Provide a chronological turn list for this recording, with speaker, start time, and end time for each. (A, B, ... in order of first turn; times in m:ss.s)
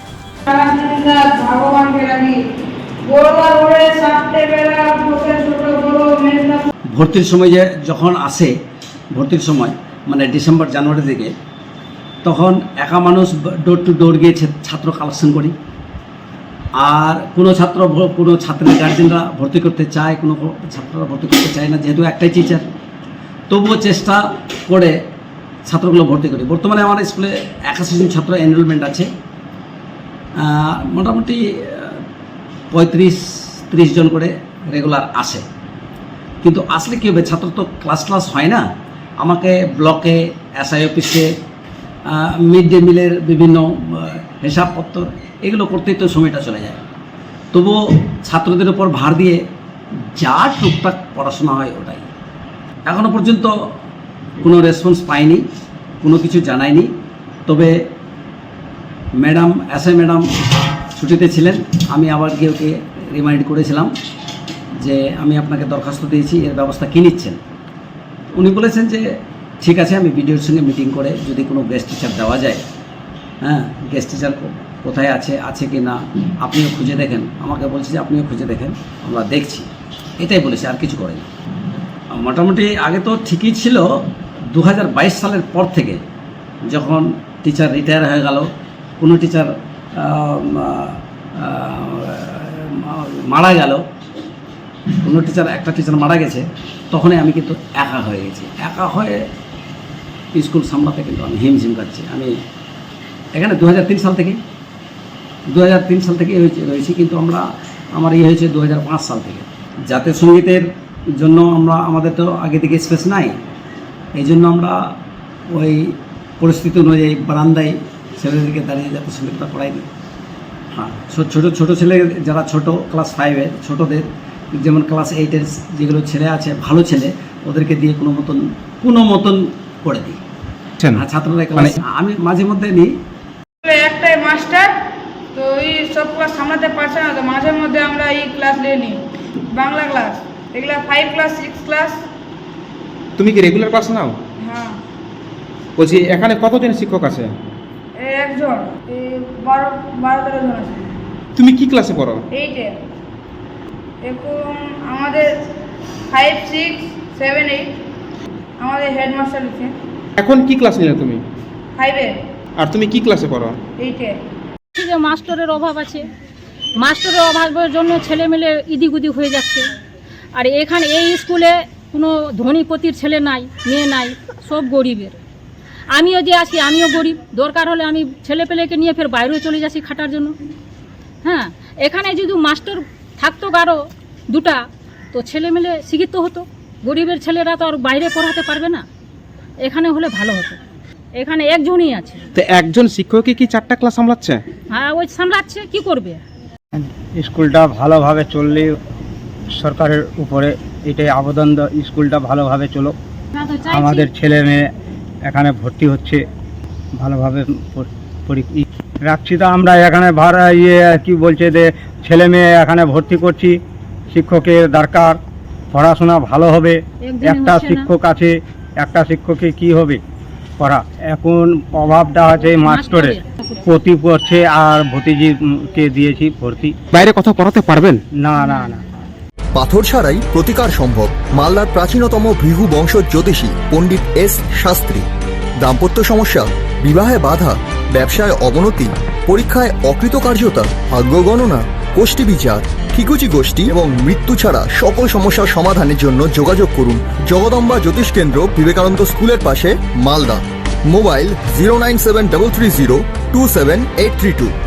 0:00.5-0:02.4 A
0:03.0-0:06.7 A
0:06.9-0:08.5 B
0:09.1-0:11.3 B
0:12.2-0:15.6 B
0:16.8-0:22.7 B
0:23.5-0:25.0 B
0:25.7-0:29.1 B
0:30.4-0:32.0 B
0:32.7-0:35.4 B
0:36.4-0:38.6 B
0:39.2-0:41.3 B
0:42.1-0:46.8 B
0:47.5-0:49.4 B
0:50.2-0:52.1 B
0:52.9-0:53.5 B
0:54.4-0:55.4 B
0:56.0-0:56.9 B
0:57.5-0:57.7 B
0:59.2-1:00.3 B
1:01.0-1:03.9 B
1:04.8-1:07.4 B
1:08.3-1:12.6 B
1:13.4-1:19.7 B
1:20.2-1:21.3 B
1:22.1-1:23.9 B
1:24.5-1:26.0 B
1:26.7-1:33.8 B
1:35.0-1:39.3 B
1:40.3-1:42.3 B
1:43.4-1:44.4 B
1:45.5-1:53.4 B
1:54.2-1:54.8 B
1:55.5-1:59.9 B
2:00.7-2:10.2 B
2:10.9-2:12.9 B
2:13.6-2:14.8 A
2:15.3-2:19.0 A
2:19.5-2:22.0 A
2:23.2-2:24.2 C
2:24.4-2:24.8 A
2:25.8-2:27.3 C
2:28.0-2:30.9 A
2:31.4-2:32.2 C
2:32.3-2:32.8 A
2:34.0-2:35.5 A
2:36.1-2:37.8 A
2:38.6-2:39.8 A
2:40.2-2:41.2 C
2:41.8-2:42.1 A
2:42.6-2:43.6 C
2:43.8-2:44.2 A
2:44.8-2:46.0 D
2:46.8-2:49.7 D
2:50.4-2:55.2 D
2:55.9-3:00.4 D
3:01.2-3:03.8 D
3:04.3-3:08.8 D
3:09.6-3:10.6 D
3:11.2-3:12.2 D
3:12.4-3:14.4 C
3:14.7-3:16.2 D
3:16.8-3:18.8 E
3:19.5-3:23.0 E
3:23.4-3:24.1 D
3:23.7-3:24.7 E
3:25.3-3:26.2 E
3:27.0-3:33.6 E
3:34.1-3:35.2 E
3:35.7-3:40.0 E
3:37.0-3:37.9 D
3:40.6-3:46.8 E
3:42.6-3:43.6 D
3:47.0-3:48.0 C
3:48.2-3:48.8 E
3:49.5-3:55.1 F
3:55.6-4:14.5 F